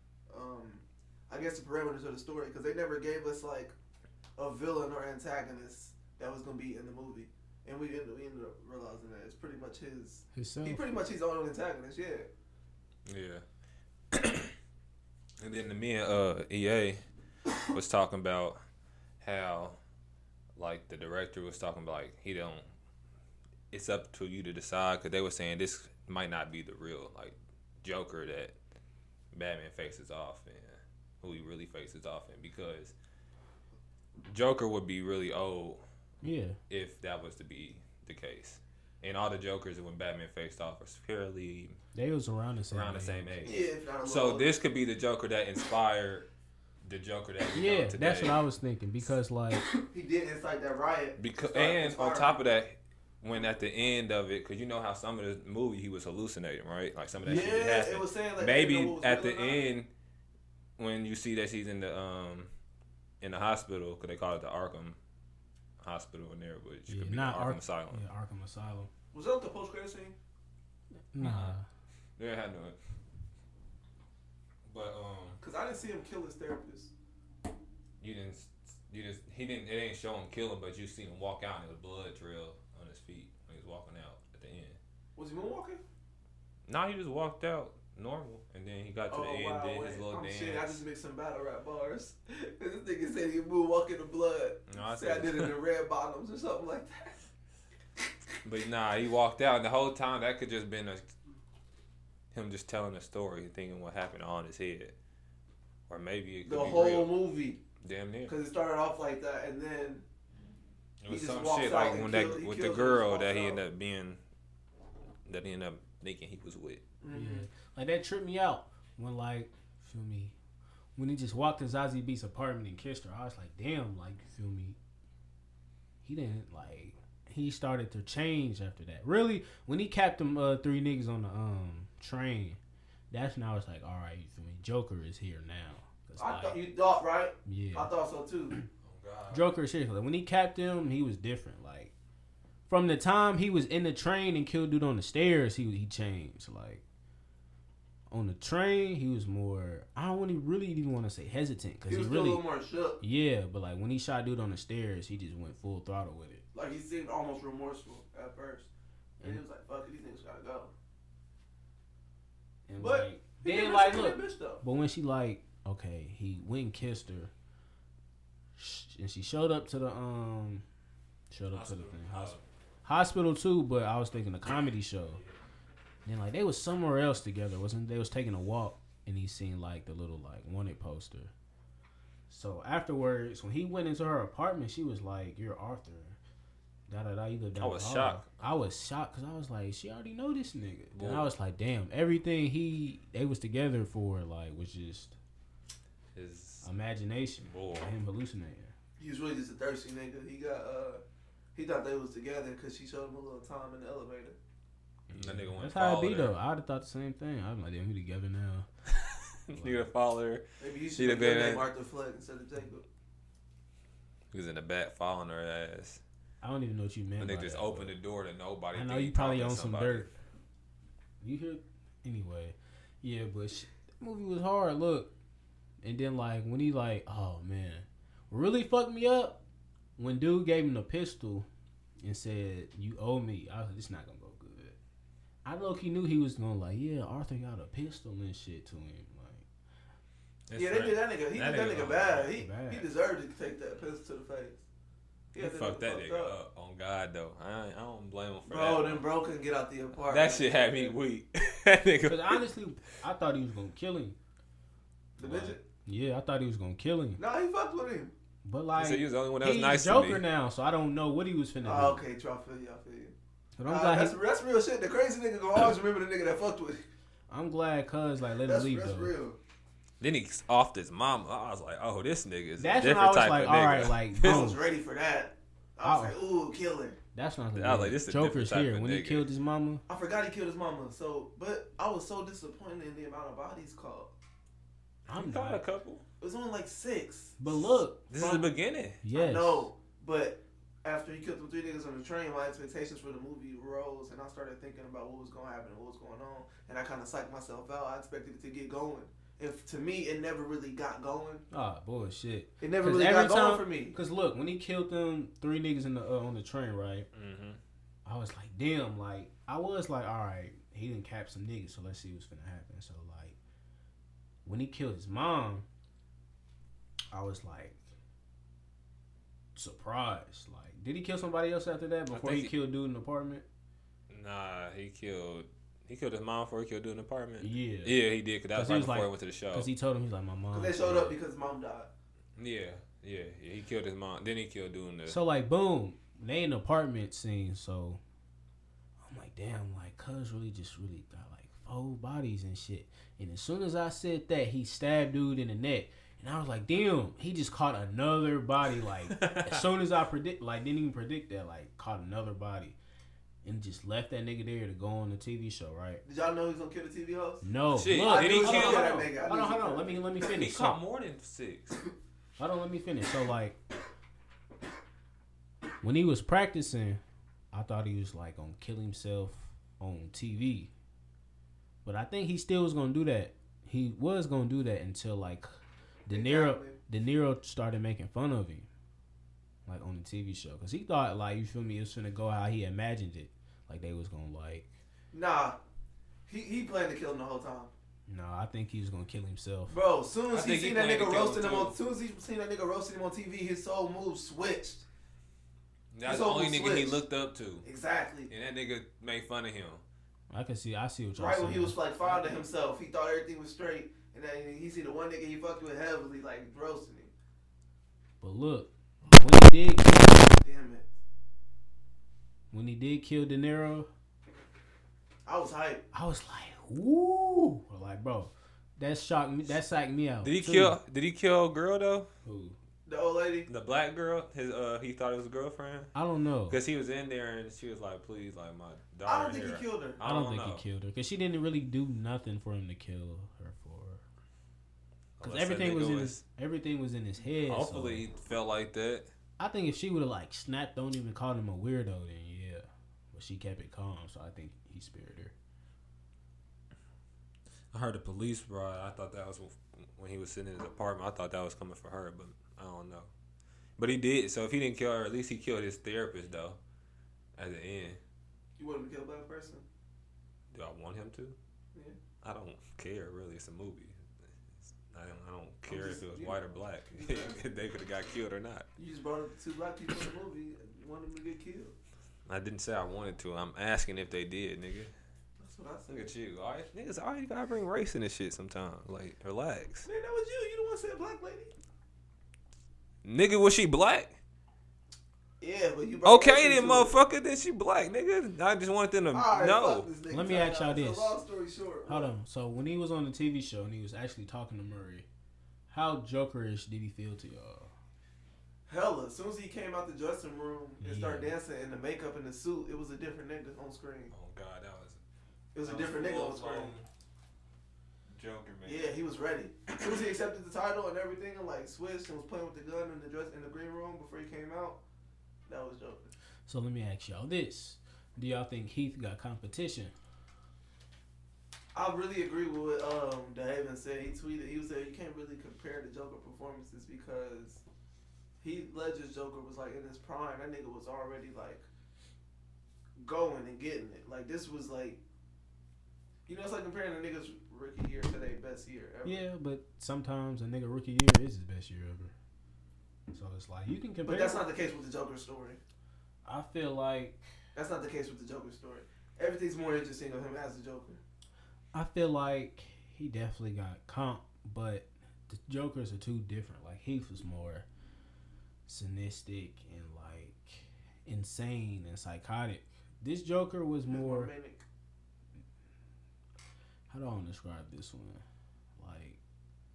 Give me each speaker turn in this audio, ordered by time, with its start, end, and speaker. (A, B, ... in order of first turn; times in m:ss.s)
0:00.3-0:03.7 A
0:04.4-0:12.3 A
0:10.3-0:10.8 B
0:13.1-0:13.4 C
0:14.1-0:14.5 C
0:15.4-0:17.0 C
0:17.6-0:18.6 C
0:19.2-0:19.8 C
0:20.6-0:22.6 C
0:23.7-0:28.5 C
0:29.3-0:32.9 C
0:34.3-0:35.8 C
0:36.2-0:36.6 B
0:36.7-0:41.8 C
0:41.9-0:43.4 B
0:42.7-0:46.3 C
0:43.4-0:44.5 A
0:46.8-0:48.4 C
0:47.5-0:49.7 B
0:49.7-0:52.4 A
0:51.2-0:59.9 C
0:57.2-0:59.6 A
1:00.8-1:02.5 C
1:03.2-1:05.0 C
1:05.8-1:08.0 C
1:06.9-1:08.9 B
1:09.1-1:10.1 A
1:11.1-1:11.6 B
1:11.2-1:11.5 C
1:12.2-1:12.8 C
1:14.6-1:15.4 C
1:15.4-1:16.9 A
1:18.0-1:24.8 C
1:25.2-1:25.8 A
1:26.7-1:30.8 C
1:29.1-1:37.2 A
1:34.7-1:35.6 C
1:38.4-1:41.1 C
1:42.3-1:44.9 C
1:45.9-1:47.1 C
1:46.4-1:47.6 A
1:47.8-1:48.4 C
1:48.3-1:50.0 A
1:51.0-1:54.2 C
1:51.1-1:53.6 A
1:55.2-1:56.8 C
1:57.0-1:57.4 A
1:57.1-2:00.3 B
2:01.0-2:04.8 B
2:06.0-2:12.6 B
2:13.1-2:16.6 B
2:16.2-2:18.6 A
2:17.4-2:17.9 B
2:18.8-2:19.5 C
2:19.3-2:21.9 B
2:22.7-2:26.8 B
2:28.1-2:32.4 B
2:31.9-2:33.0 A
2:33.0-2:36.4 B
2:36.5-2:38.7 A
2:39.2-2:40.7 A
2:42.7-2:47.3 B
2:42.8-2:44.6 A
2:48.6-2:50.6 B
2:51.3-2:55.2 B
2:51.5-2:52.4 C
2:56.0-3:01.3 B
3:02.3-3:06.2 B
3:06.9-3:15.2 B
3:07.6-3:08.3 C
3:10.9-3:11.3 C
3:16.1-3:16.6 C
3:16.6-3:18.7 B
3:17.4-3:17.9 C
3:19.0-3:21.0 A
3:21.5-3:24.4 A
3:25.1-3:28.7 B
3:25.1-3:26.4 C
3:28.9-3:31.7 C
3:29.5-3:29.9 B
3:30.6-3:32.8 A
3:34.3-3:36.0 C
3:36.4-3:37.9 B
3:37.2-3:40.1 C
3:38.7-3:40.1 B
3:41.2-3:45.1 B
3:45.8-3:49.4 B
3:50.0-3:51.5 B
3:52.0-3:54.8 B
3:55.4-3:59.4 B
4:00.5-4:02.3 C
4:00.6-4:04.6 A
4:02.3-4:02.9 B
4:05.3-4:06.3 A
4:05.4-4:09.0 C
4:08.5-4:10.9 A
4:10.0-4:12.4 C
4:12.0-4:14.2 B
4:15.2-4:15.6 A
4:15.2-4:17.2 B
4:17.2-4:18.1 A
4:18.4-4:22.0 B
4:18.8-4:20.2 C
4:21.6-4:23.1 A
4:23.6-4:24.2 B
4:23.7-4:26.8 A
4:27.3-4:29.1 B
4:28.4-4:29.4 A
4:30.0-4:34.5 C
4:32.6-4:34.6 B
4:34.2-4:37.0 A
4:35.8-4:36.2 B
4:37.1-4:39.8 B
4:37.5-4:39.3 C
4:39.9-4:44.1 A
4:45.1-4:45.7 B
4:45.1-4:46.0 C
4:46.2-4:47.6 A
4:47.4-4:48.4 B
4:48.1-4:49.0 C
4:49.0-4:49.7 B
4:49.1-5:01.4 A
5:01.5-5:07.1 B
5:02.6-5:04.0 A
5:07.1-5:07.6 C
5:08.0-5:13.4 B
5:14.4-5:15.6 B
5:17.1-5:17.8 B
5:19.5-5:23.4 B
5:22.1-5:22.5 C
5:24.1-5:29.7 C
5:27.4-5:28.0 B
5:28.5-5:31.1 B
5:30.5-5:31.9 A
5:32.4-5:35.2 C
5:35.1-5:38.0 B
5:39.0-5:52.8 B
5:49.1-5:49.7 C
5:53.4-5:56.0 B
5:56.0-5:57.4 A
5:57.4-6:00.8 B
5:57.7-5:58.9 C
5:57.9-6:00.1 A
6:00.2-6:01.8 C
6:02.4-6:03.6 B
6:05.8-6:07.0 B
6:07.5-6:10.7 B
6:11.8-6:15.5 B
6:16.1-6:18.7 B
6:16.1-6:16.8 A
6:19.6-6:24.7 B
6:25.1-6:25.6 A
6:26.3-6:27.7 A
6:28.1-6:29.8 B
6:29.7-6:34.8 A
6:30.3-6:31.8 C
6:35.9-6:37.6 C
6:36.0-6:37.0 A
6:37.6-6:38.3 A
6:38.3-6:39.8 C
6:40.3-6:42.4 B
6:41.2-6:47.1 A
6:48.2-6:50.3 B
6:50.4-6:50.8 A
6:52.5-6:53.9 B
6:55.2-6:55.8 A
6:55.9-7:00.8 B
7:00.2-7:02.1 C
7:02.2-7:02.6 B
7:02.8-7:03.5 A
7:03.5-7:05.9 C
7:05.9-7:06.6 B
7:06.5-7:10.6 C
7:09.0-7:10.0 A
7:10.0-7:14.0 B
7:15.2-7:16.2 C
7:15.2-7:18.1 B
7:17.4-7:19.1 C
7:19.4-7:25.3 B
7:27.7-7:33.1 C
7:33.8-7:36.6 C
7:37.4-7:38.0 C
7:38.6-7:39.6 A
7:40.5-7:41.4 C
7:42.2-7:44.0 C
7:44.9-7:48.6 C
7:45.7-7:47.4 A
7:48.8-7:51.7 A
7:52.3-7:54.9 C
7:55.4-7:56.1 A
7:55.9-7:59.9 C
7:59.8-8:01.5 A
8:03.0-8:04.1 C
8:05.4-8:07.0 A
8:06.0-8:09.9 C
8:09.1-8:12.1 A
8:10.1-8:11.2 B
8:11.9-8:15.1 B
8:15.7-8:17.7 B
8:18.7-8:24.1 A
8:20.8-8:21.3 B
8:24.1-8:25.0 C
8:25.5-8:26.7 A
8:25.6-8:26.9 C
8:28.1-8:28.9 C
8:28.6-8:34.8 A
8:35.5-8:36.1 A
8:36.4-8:39.9 B
8:41.7-8:47.6 A
8:48.4-8:51.6 A
8:53.0-8:55.0 A
8:56.3-8:59.2 A
8:59.0-9:02.1 B
9:03.1-9:04.4 B
9:04.0-9:05.6 A
9:06.2-9:07.2 B
9:07.5-9:11.0 A
9:11.7-9:17.6 B
9:18.7-9:24.3 B
9:23.9-9:24.6 A
9:26.9-9:28.2 B
9:28.8-9:29.2 B